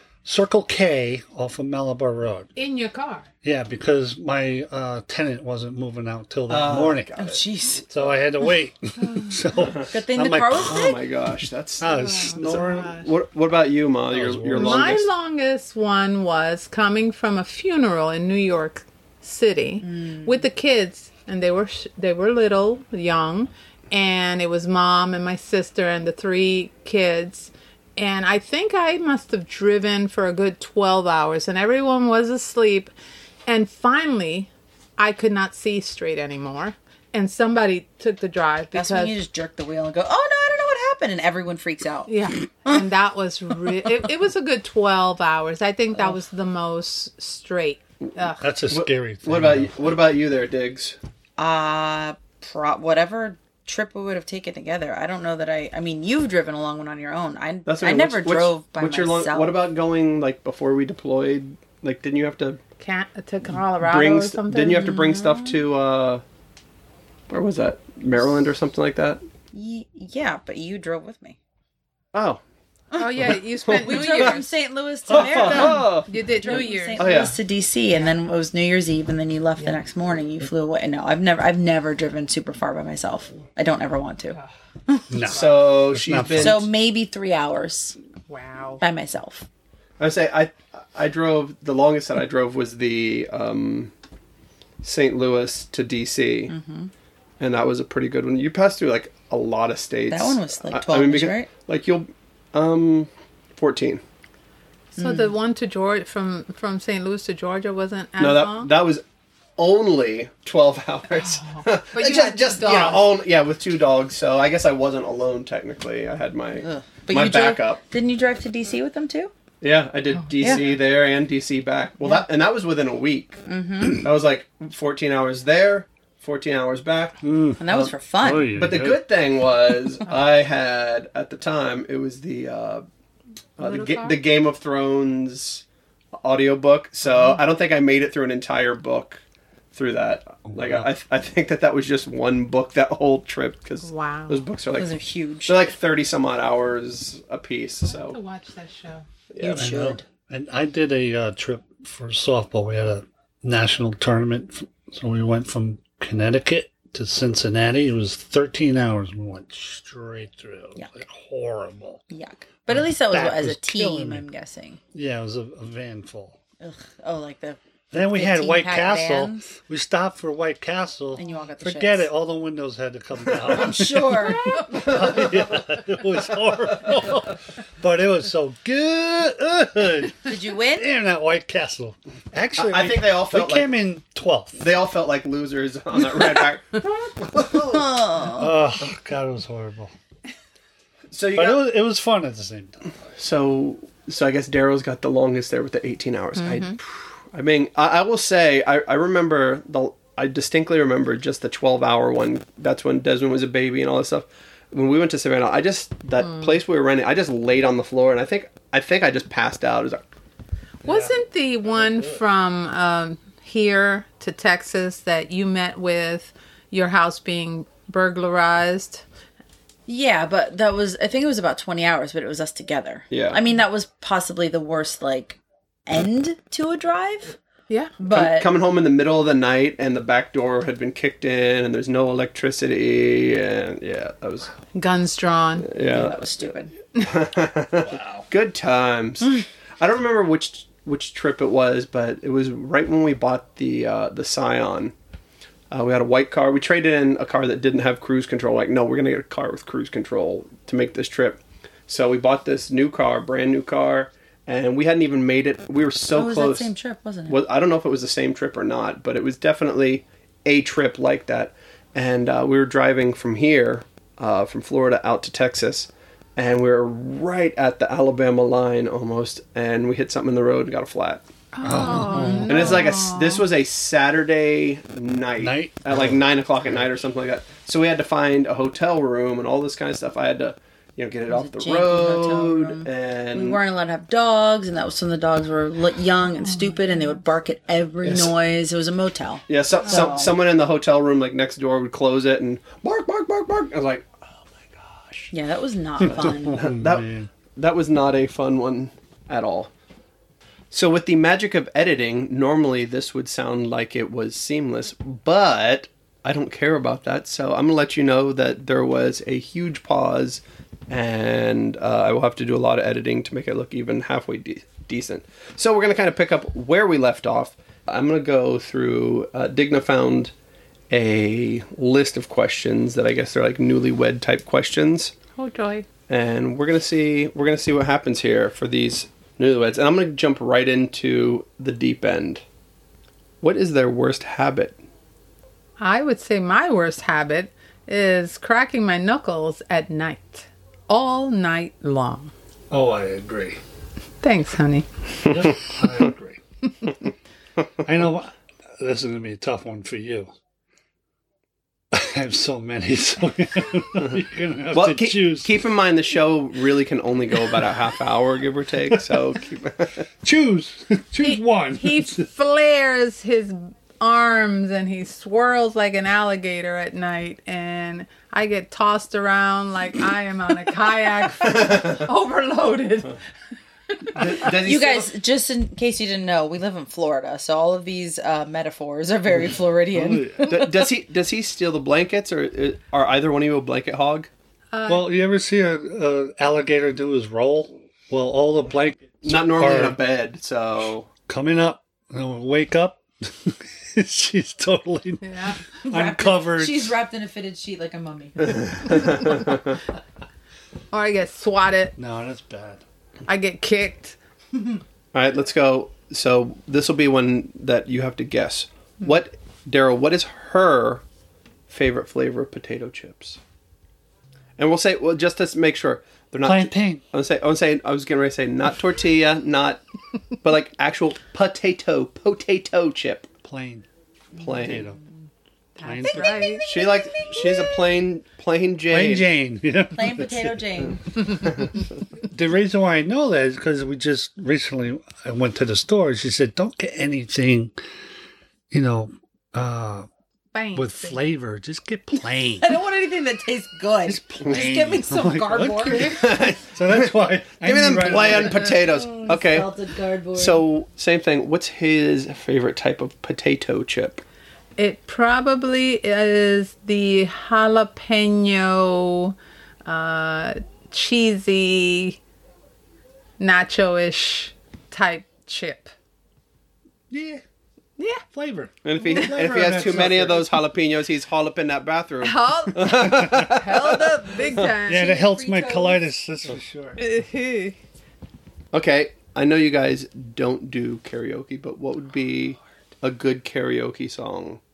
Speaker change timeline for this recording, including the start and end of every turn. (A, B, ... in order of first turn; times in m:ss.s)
0:00.2-0:02.5 A
0:02.6-0:03.3 B
0:03.4-0:07.1 A
0:06.5-0:07.4 C
0:07.2-0:07.9 D
0:07.9-0:11.0 A
0:09.0-0:09.7 B
0:09.9-0:11.0 D
0:10.6-0:15.1 C
0:11.8-0:13.0 A
0:11.9-0:13.1 B
0:14.1-0:15.1 A
0:14.6-0:32.9 B
0:19.8-0:20.4 D
0:33.5-0:39.2 B
0:38.7-0:42.2 D
0:42.1-0:48.4 B
0:48.4-0:50.0 A
0:48.7-0:51.0 C
0:51.4-0:59.6 D
0:57.7-1:02.6 C
1:02.8-1:04.9 B
1:03.8-1:06.2 C
1:04.7-1:05.6 D
1:07.3-1:09.2 C
1:09.5-1:11.4 D
1:12.1-1:12.4 C
1:12.9-1:24.4 D
1:13.0-1:14.6 B
1:13.2-1:14.4 C
1:15.1-1:15.9 A
1:15.1-1:17.4 C
1:15.5-1:17.1 B
1:25.1-1:26.7 A
1:25.3-1:26.6 C
1:26.3-1:28.0 D
1:28.3-1:28.8 B
1:28.8-1:29.5 D
1:30.0-1:33.9 C
1:34.8-1:36.5 C
1:36.5-1:36.9 D
1:37.4-1:44.0 C
1:40.1-1:41.5 D
1:45.0-1:48.7 B
1:45.0-1:45.3 D
1:48.2-1:49.0 C
1:49.6-1:57.8 C
1:51.3-1:53.0 B
1:56.6-1:59.3 D
1:59.6-2:07.2 C
2:03.5-2:04.0 D
2:07.2-2:09.0 A
2:07.6-2:08.5 D
2:08.5-2:12.9 C
2:13.6-2:15.6 C
2:13.6-2:14.2 B
2:16.2-2:19.2 C
2:19.7-2:24.9 C
2:20.5-2:20.9 A
2:23.8-2:24.4 B
2:24.8-2:25.7 D
2:25.5-2:28.2 C
2:27.9-2:29.1 B
2:29.3-2:29.7 C
2:29.4-2:30.0 D
2:29.6-2:42.0 A
2:42.1-2:44.8 D
2:42.7-2:44.3 A
2:44.9-2:46.4 A
2:46.6-2:49.6 D
2:47.9-3:04.7 A
2:51.2-2:52.1 D
2:53.4-2:54.8 D
3:00.2-3:00.9 D
3:02.6-3:03.7 C
3:04.6-3:07.9 C
3:07.5-3:08.5 D
3:08.3-3:09.9 A
3:11.1-3:11.6 C
3:11.3-3:12.9 A
3:13.2-3:30.0 C
3:16.4-3:16.8 B
3:26.2-3:26.5 B
3:30.8-3:32.2 A
3:30.8-3:39.0 B
3:39.9-3:47.4 D
3:43.1-3:43.4 C
3:47.7-3:47.9 B
3:48.0-3:48.5 D
3:48.1-3:54.5 C
3:54.7-3:55.7 B
3:55.6-3:56.2 C
3:55.9-3:56.7 D
3:57.0-4:04.9 C
3:57.8-3:58.3 A
4:05.7-4:16.7 C
4:16.1-4:17.4 D
4:17.3-4:31.2 C
4:31.5-4:33.4 B
4:31.6-4:32.8 A
4:32.5-4:43.6 C
4:35.4-4:36.2 A
4:41.3-4:50.4 D
4:46.7-4:47.0 B
4:48.0-4:48.3 C
4:49.5-4:55.3 C
4:55.3-4:56.7 D
4:56.0-4:57.3 A
4:56.0-4:59.7 C
5:00.7-5:20.3 C
5:20.9-5:25.2 C
5:25.4-5:25.9 B
5:26.1-5:32.4 C
5:33.4-5:34.8 C
5:35.8-5:42.3 B
5:42.7-5:43.6 A
5:44.2-5:44.9 B
5:45.3-5:46.4 A
5:47.8-5:50.3 A
5:51.9-5:55.5 A
5:54.7-6:00.1 C
5:58.9-5:59.2 A
6:00.2-6:02.3 A
6:01.2-6:13.2 B
6:14.0-6:14.4 B
6:14.2-6:15.1 C
6:14.4-6:20.9 D
6:19.9-6:20.6 A
6:20.4-6:24.3 C
6:24.7-6:25.1 B
6:24.9-6:30.0 A
6:29.2-6:31.1 C
6:31.3-6:37.0 A
6:35.2-6:35.6 B
6:35.8-6:39.4 D
6:38.6-6:39.8 C
6:40.9-6:42.0 B
6:42.0-6:42.8 A
6:43.3-6:44.2 B
6:45.1-6:51.0 C
6:51.7-6:53.4 C
6:54.6-6:59.8 C
6:56.4-6:57.0 A
7:00.4-7:03.3 C
7:03.4-7:03.9 A
7:04.4-7:04.9 C
7:04.5-7:05.0 A
7:05.8-7:06.7 B
7:05.8-7:06.6 A
7:06.0-7:07.9 D
7:06.7-7:09.3 C
7:08.9-7:10.9 A
7:10.0-7:11.2 D
7:12.2-7:17.8 A
7:18.7-7:20.1 A
7:20.5-7:21.2 B
7:20.8-7:22.7 A
7:22.6-7:26.3 D
7:24.1-7:28.8 A
7:26.0-7:29.7 C
7:28.6-7:30.6 D
7:30.4-7:34.2 C
7:34.8-7:42.2 B
7:43.4-7:45.9 B
7:47.1-7:47.4 A
7:48.0-7:48.2 B
7:48.3-7:50.5 A
7:48.8-7:54.7 C
7:52.2-7:55.2 B
7:53.2-7:53.4 A
7:54.8-7:57.1 A
7:54.9-7:56.0 D
7:57.0-7:57.8 B
7:58.7-8:04.6 C